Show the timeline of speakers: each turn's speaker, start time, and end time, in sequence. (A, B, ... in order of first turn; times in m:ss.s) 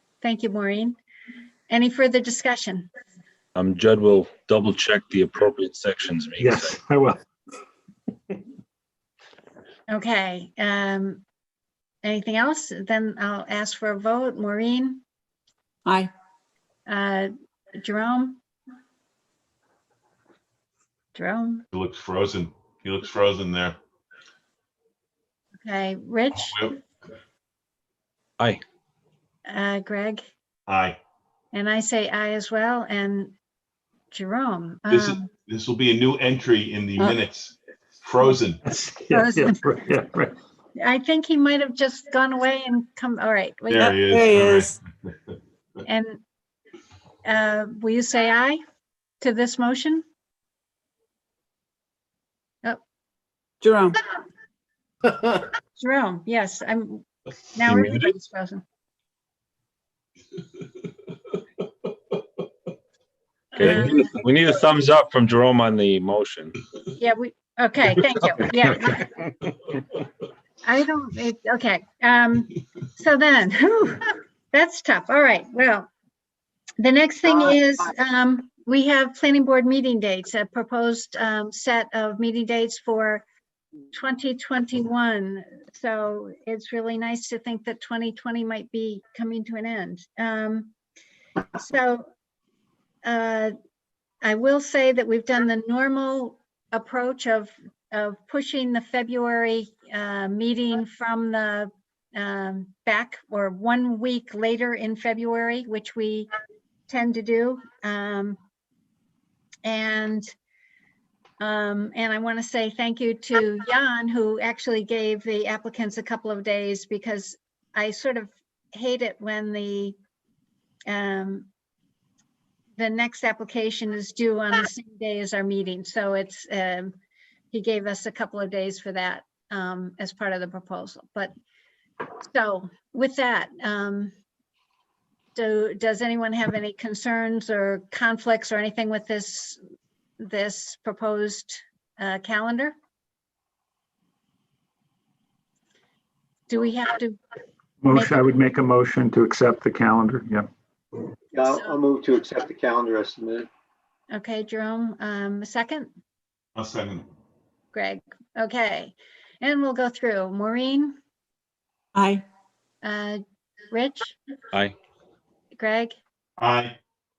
0:00.2-0:00.9 A
0:01.7-0:02.9 A
0:03.5-0:06.8 B
0:06.4-0:07.2 C
0:09.9-0:11.2 A
0:12.0-0:15.0 A
0:15.8-0:16.1 D
0:16.9-0:18.4 A
0:21.1-0:21.6 A
0:21.7-0:23.8 E
0:25.6-0:26.6 A
0:26.4-0:26.7 E
0:29.5-0:30.2 A
0:30.7-0:31.0 E
0:31.5-0:33.3 A
0:34.1-0:35.3 A
0:34.9-0:38.6 E
0:38.6-0:40.3 C
0:39.1-0:39.6 A
0:40.8-0:43.9 A
0:43.7-0:44.8 E
0:43.8-0:44.8 D
0:45.8-0:46.2 A
0:47.2-0:48.6 A
0:49.2-0:50.0 A
0:53.6-0:54.0 D
0:55.8-0:58.6 A
0:57.6-0:58.1 B
1:03.5-1:04.0 A
1:03.6-1:06.6 B
1:06.9-1:09.1 A
1:10.6-1:15.9 A
1:16.8-1:23.2 A
1:23.9-1:30.7 A
1:31.6-1:32.0 A
1:33.0-1:33.5 A
1:34.2-1:46.3 A
1:46.9-1:48.4 A
1:49.6-1:50.2 A
1:51.4-2:00.0 A
2:00.9-2:01.5 A
2:02.8-2:06.9 A
2:07.5-2:11.3 A
2:12.2-2:14.1 A
2:15.3-2:19.6 A
2:20.2-2:22.7 A
2:26.5-2:27.2 A
2:27.8-2:30.5 C
2:27.9-2:28.2 A
2:31.3-2:33.5 F
2:31.5-2:31.7 A
2:34.1-2:35.9 A
2:36.6-2:37.1 E
2:37.7-2:41.0 A
2:41.9-2:42.2 D
2:42.8-2:44.2 A
2:45.5-2:46.0 A
2:46.4-2:46.8 E